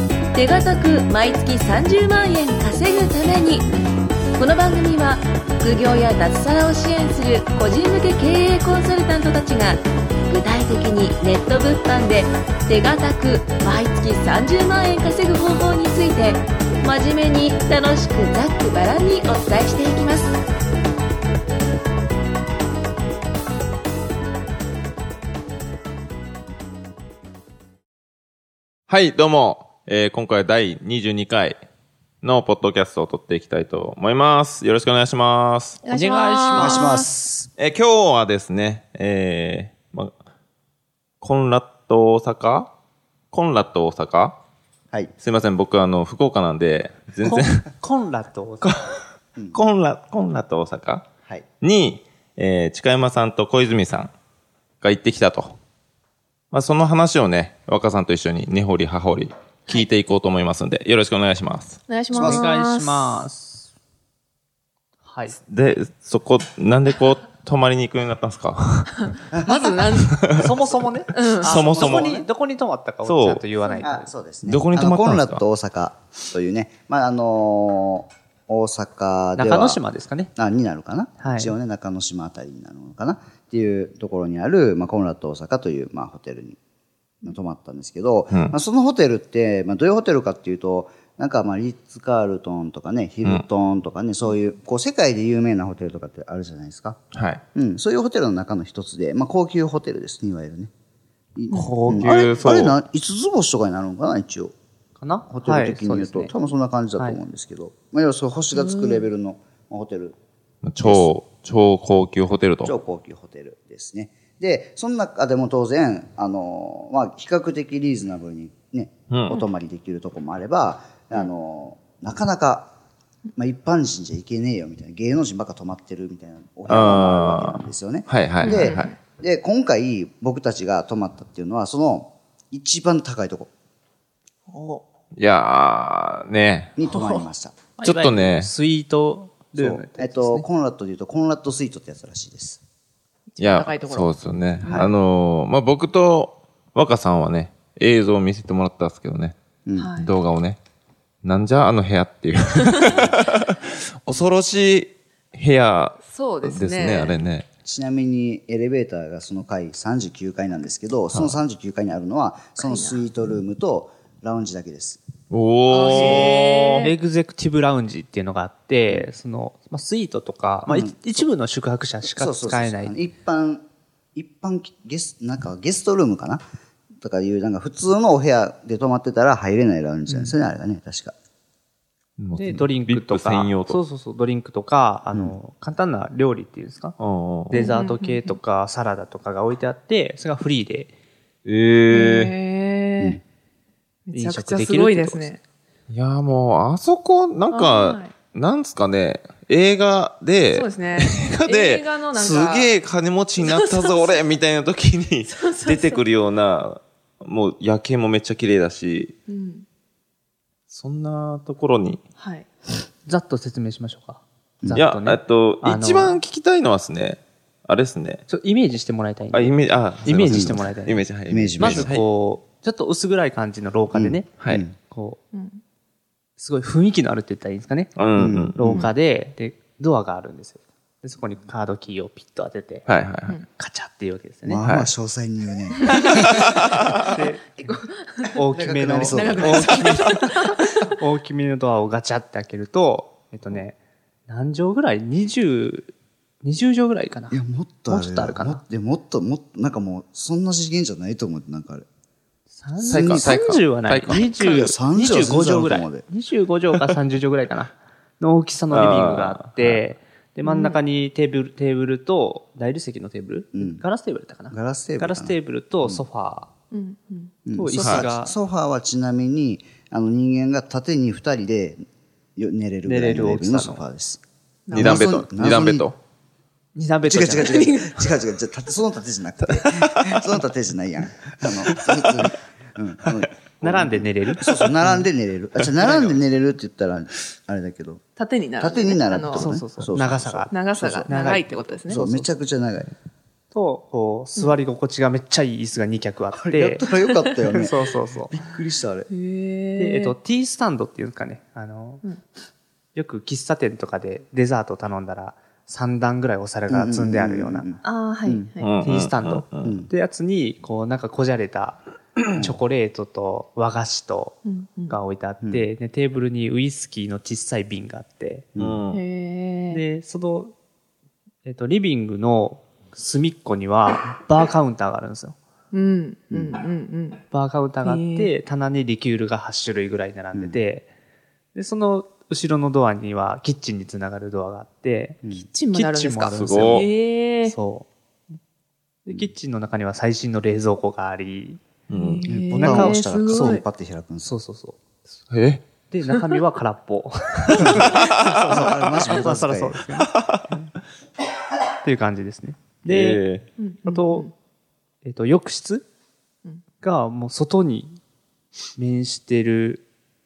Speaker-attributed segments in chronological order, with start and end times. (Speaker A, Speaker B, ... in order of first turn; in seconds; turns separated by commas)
Speaker A: 0.3-3.7, Speaker A: 4.4-20.4, Speaker B: 28.9-31.6, Speaker B: 32.2-35.8, Speaker C: 35.9-37.1, Speaker D: 35.9-37.1, Speaker E: 36.6-37.5, Speaker B: 37.6-40.1, Speaker B: 41.2-42.7, Speaker B: 43.3-44.4, Speaker B: 45.2-47.7, Speaker C: 47.2-48.7, Speaker B: 48.6-51.1, Speaker B: 51.6-54.1, Speaker B: 54.8-55.6, Speaker B: 56.5-61.8, Speaker D: 61.9-63.2, Speaker C: 62.1-63.7, Speaker E: 62.2-62.5, Speaker C: 65.0-65.4, Speaker B: 65.4-69.2, Speaker E: 69.3-69.8, Speaker D: 69.5-70.2, Speaker B: 69.9-70.5, Speaker C: 70.3-74.1, Speaker D: 71.1-71.5, Speaker B: 71.5-72.2, Speaker E: 71.5-72.3, Speaker B: 73.0-73.5, Speaker E: 73.8-79.8, Speaker B: 74.5-75.4, Speaker C: 79.4-80.3, Speaker E: 80.4-86.6, Speaker C: 81.2-81.5, Speaker E: 87.2-97.0, Speaker B: 88.3-88.6, Speaker B: 97.1-97.4, Speaker E: 97.5-100.7, Speaker E: 101.4-104.5, Speaker C: 101.5-102.2, Speaker B: 101.9-102.8, Speaker C: 105.0-106.3, Speaker E: 105.3-110.2, Speaker D: 108.5-109.1, Speaker B: 110.6-112.7, Speaker E: 110.8-111.1, Speaker E: 112.6-122.7, Speaker B: 119.1-119.4, Speaker E: 123.4-133.5, Speaker B: 126.7-128.9, Speaker D: 128.4-128.9, Speaker B: 135.1-136.8, Speaker E: 136.8-137.6, Speaker D: 136.8-137.3, Speaker C: 137.8-140.5, Speaker B: 137.8-138.5, Speaker E: 139.6-142.6, Speaker D: 143.4-144.9, Speaker B: 143.4-149.4, Speaker E: 149.7-149.9, Speaker D: 149.8-150.1, Speaker B: 150.0-150.6, Speaker B: 151.2-157.5, Speaker D: 152.7-153.0, Speaker D: 156.0-157.2, Speaker E: 157.6-165.0, Speaker B: 161.1-161.4, Speaker D: 162.6-163.1, Speaker B: 165.3-166.3, Speaker E: 165.7-166.7, Speaker D: 165.7-166.9, Speaker C: 166.7-172.9, Speaker E: 170.7-171.0, Speaker E: 172.2-176.4, Speaker E: 177.0-181.1, Speaker C: 180.1-180.4, Speaker B: 182.2-183.8, Speaker C: 182.3-187.0, Speaker B: 187.0-187.7, Speaker D: 187.5-188.4, Speaker C: 187.5-190.9, Speaker B: 191.4-192.3, Speaker D: 191.9-193.2, Speaker D: 194.1-195.4, Speaker C: 194.1-195.3, Speaker B: 195.9-209.2, Speaker D: 197.5-198.2, Speaker D: 200.5-202.8, Speaker D: 203.4-204.3, Speaker D: 205.3-206.1, Speaker D: 209.3-209.7, Speaker B: 210.7-212.0, Speaker D: 212.2-212.5, Speaker C: 213.1-216.2, Speaker B: 214.8-218.2, Speaker C: 218.3-221.1, Speaker B: 219.3-222.1, Speaker E: 220.3-220.6, Speaker E: 221.3-222.0, Speaker C: 221.6-225.2, Speaker E: 223.9-224.8, Speaker D: 225.3-225.6, Speaker C: 226.4-228.0, Speaker B: 228.0-228.7, Speaker E: 228.2-228.9, Speaker C: 228.5-232.9, Speaker B: 232.9-233.4, Speaker C: 233.5-234.7, Speaker E: 234.4-237.0, Speaker B: 234.6-234.9, Speaker B: 236.3-237.0, Speaker C: 236.3-237.8, Speaker D: 237.7-238.3, Speaker C: 238.3-243.8, Speaker E: 238.4-239.9, Speaker D: 239.0-240.8, Speaker C: 244.3-245.9, Speaker C: 246.4-248.6, Speaker E: 247.3-251.9, Speaker C: 252.5-266.5, Speaker E: 252.8-253.4, Speaker B: 252.9-254.3, Speaker E: 254.4-256.0, Speaker D: 254.4-254.7, Speaker B: 258.7-259.8, Speaker D: 260.4-260.8, Speaker E: 263.5-263.8, Speaker E: 264.5-266.0, Speaker D: 266.7-267.4, Speaker E: 267.5-271.8, Speaker C: 267.5-268.4, Speaker B: 267.8-268.1, Speaker E: 272.4-274.2, Speaker C: 272.8-273.8, Speaker D: 274.7-275.0, Speaker E: 274.7-275.9, Speaker B: 274.7-276.0, Speaker C: 276.8-277.9, Speaker E: 277.0-288.0, Speaker B: 279.7-280.3, Speaker B: 281.7-282.3, Speaker C: 283.6-285.1, Speaker D: 288.2-289.6, Speaker E: 288.6-291.1, Speaker C: 289.3-290.5, Speaker D: 290.5-292.0, Speaker C: 291.1-292.3, Speaker E: 291.9-292.9, Speaker C: 293.5-296.9, Speaker E: 296.3-299.1, Speaker D: 296.9-297.3, Speaker C: 297.5-298.3, Speaker D: 299.1-300.2, Speaker C: 299.8-302.1, Speaker C: 302.9-307.7, Speaker E: 306.7-308.5, Speaker D: 307.8-308.7, Speaker B: 308.6-309.7, Speaker C: 308.8-318.5, Speaker E: 309.6-309.9, Speaker D: 314.4-315.0, Speaker E: 315.4-315.7, Speaker E: 318.6-318.8, Speaker B: 318.6-319.0, Speaker D: 318.9-319.8, Speaker C: 319.7-320.5, Speaker C: 321.4-325.4, Speaker D: 325.7-327.2, Speaker E: 326.3-326.6, Speaker C: 327.3-330.9, Speaker D: 327.8-328.3, Speaker E: 330.3-330.6, Speaker C: 331.6-336.9, Speaker D: 335.5-337.6, Speaker B: 336.4-336.9, Speaker C: 337.4-337.9, Speaker C: 339.1-341.6, Speaker B: 341.9-342.2, Speaker D: 341.9-343.6, Speaker E: 342.2-344.4, Speaker C: 342.5-343.6, Speaker C: 344.2-344.8, Speaker B: 345.3-345.6, Speaker C: 345.9-350.7, Speaker B: 347.5-348.4, Speaker E: 347.7-349.9, Speaker B: 350.0-350.5, Speaker C: 351.8-353.2, Speaker B: 352.9-353.5, Speaker D: 353.6-354.3, Speaker C: 353.9-354.3, Speaker C: 355.0-355.9, Speaker C: 356.8-358.0, Speaker C: 358.8-359.8